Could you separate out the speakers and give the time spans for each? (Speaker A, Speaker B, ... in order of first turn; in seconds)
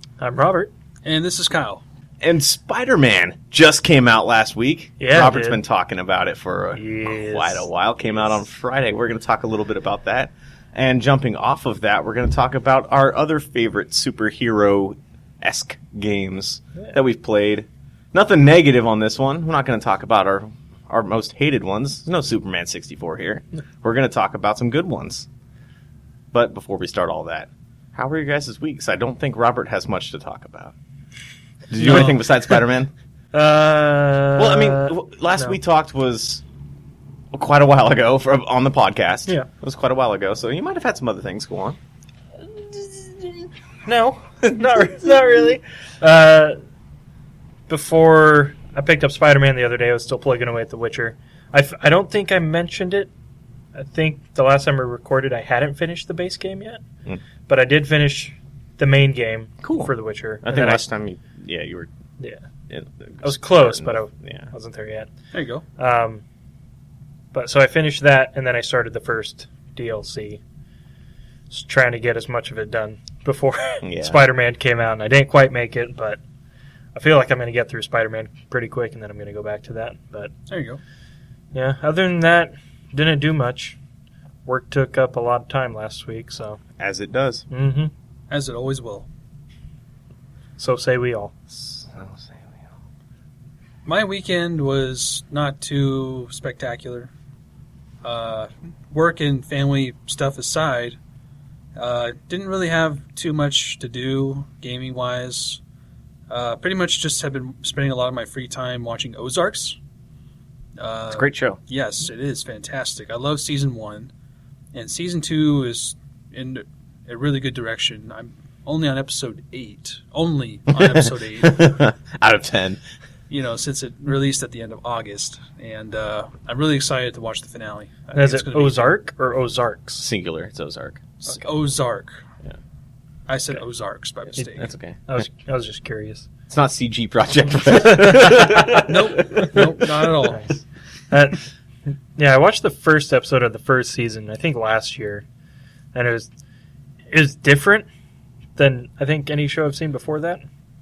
Speaker A: 0.2-0.7, 5.0-5.6, 6.7-7.7, 31.8-32.2, 33.3-35.6, 43.9-46.6, 47.7-53.1, 53.7-56.8, 57.5-60.8, 63.2-65.1, 65.8-66.2, 67.3-70.4, 71.5-76.2, 76.9-80.3, 81.5-83.8, 84.5-86.6, 87.5-87.9, 90.6-91.3, 128.1-130.0, 135.1-136.3, 137.8-138.8, 140.2-145.2, 145.9-146.3, 147.1-147.8, 148.6-150.4
Speaker B: 1.0-1.8, 65.3-65.6, 80.5-80.8, 88.3-89.1, 93.8-97.1, 98.0-101.0, 101.8-105.6, 106.3-109.8, 110.8-114.1, 114.7-121.8, 123.3-128.9, 131.2-132.2, 133.3-134.7, 138.8-140.4
Speaker C: 2.2-25.3, 26.3-30.7, 31.7-32.9, 34.4-36.4, 37.3-41.8, 59.6-61.9, 62.7-64.5, 73.8-74.2, 86.8-87.5, 91.5-92.7, 111.1-111.6, 120.7-122.8, 130.0-131.2, 134.5-135.1, 136.5-140.2